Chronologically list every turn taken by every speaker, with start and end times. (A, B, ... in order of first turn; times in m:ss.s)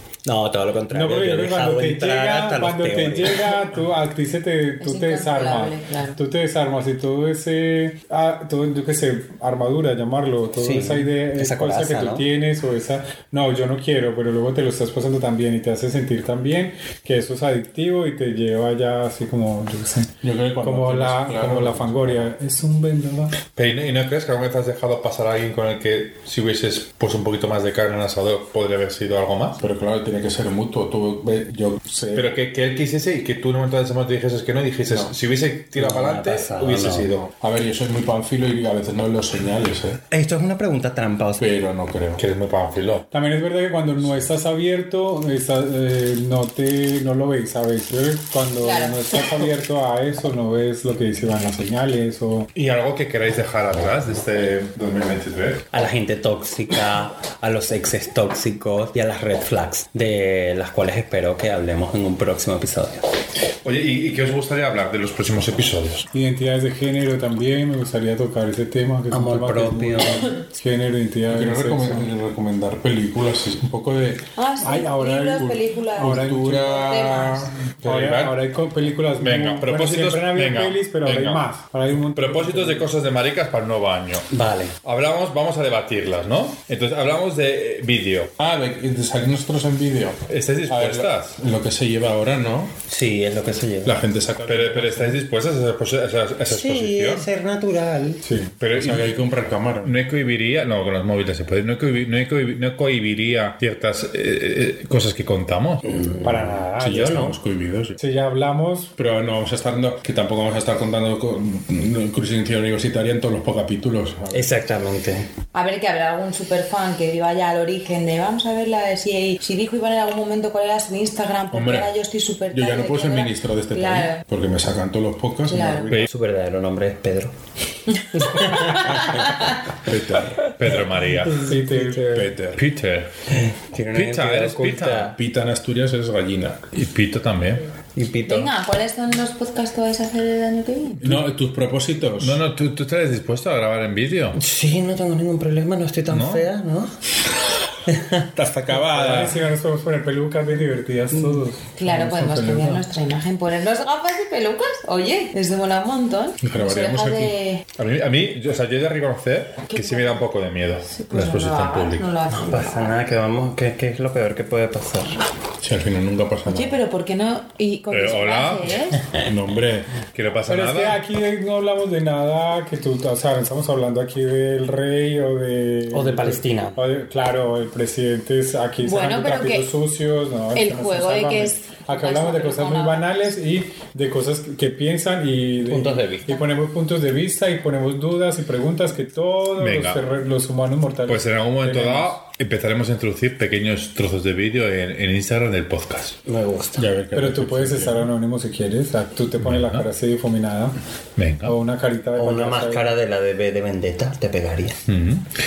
0:00.2-0:03.6 A
0:00.9-0:23.4 B
0:04.8-0:06.2 C
0:10.6-0:12.3 A
0:20.2-0:22.3 D
0:23.5-0:29.6 E
0:29.6-0:31.8 D
0:31.9-0:32.3 B
0:32.1-0:37.3 E
0:35.8-0:37.1 A
0:37.2-0:40.0 D
0:40.1-0:41.4 A
0:41.4-0:42.2 D
0:42.2-0:43.1 E
0:43.1-0:52.5 B
0:48.6-0:49.3 C
0:52.6-0:55.6 E
0:55.7-1:03.0 A
1:03.6-1:06.1 E
1:06.1-1:12.1 B
1:09.1-1:10.3 A
1:11.3-1:14.3 D
1:14.4-1:17.5 C
1:14.6-1:16.8 B
1:16.0-1:18.4 D
1:17.8-1:22.9 B
1:19.2-1:24.3 E
1:24.3-1:24.8 A
1:24.8-1:28.3 E
1:28.4-1:32.7 D
1:30.3-1:31.4 E
1:32.9-1:34.0 A
1:33.8-1:34.8 D
1:34.4-1:35.2 B
1:34.4-1:37.3 E
1:36.5-1:38.2 A
1:38.2-1:38.5 B
1:38.6-1:45.9 E
1:38.8-1:40.0 D
1:45.8-1:46.7 A
1:46.2-1:47.4 B
1:46.8-1:48.0 D
1:48.0-1:48.9 B
1:49.0-1:54.6 D
1:54.3-1:55.3 A
1:55.5-2:04.2 C
2:01.5-2:01.9 D
2:02.5-2:05.9 D
2:05.5-2:05.9 C
2:05.9-2:07.4 A
2:08.0-2:09.6 C
2:08.1-2:09.1 A
2:09.8-2:10.4 D
2:10.6-2:11.5 E
2:11.3-2:12.3 A
2:11.4-2:12.2 B
2:12.0-2:12.6 D
2:12.5-2:13.1 E
2:13.3-2:15.2 A
2:13.9-2:15.1 E
2:15.1-2:16.7 D
2:16.8-2:17.7 E
2:18.0-2:18.5 A
2:18.3-2:21.2 C
2:21.0-2:22.4 D
2:22.2-2:24.4 E
2:24.4-2:26.9 A
2:26.1-2:26.5 E
2:27.9-2:28.3 A
2:28.4-2:29.4 E
2:28.6-2:29.3 D
2:28.8-2:32.8 B
2:31.1-2:31.4 A
2:31.8-2:37.6 C
2:36.4-2:37.4 D
2:37.8-2:42.1 E
2:39.7-2:40.2 C
2:40.9-2:43.0 C
2:42.3-2:45.2 A
2:45.6-2:46.8 D
2:46.5-2:49.0 C
2:47.9-2:49.0 E
2:49.2-2:49.9 D
2:50.1-2:51.0 E
2:50.5-3:12.2 B
2:55.9-2:56.8 A
2:58.8-2:59.7 C
3:00.5-3:03.1 C
3:05.6-3:06.4 A
3:09.6-3:10.0 E
3:11.0-3:16.2 E
3:16.3-3:16.9 A
3:16.8-3:18.1 D
3:17.1-3:20.8 B
3:19.4-3:19.9 E
3:21.2-3:21.6 E
3:21.4-3:22.9 B
3:22.2-3:24.8 A
3:24.9-3:25.3 E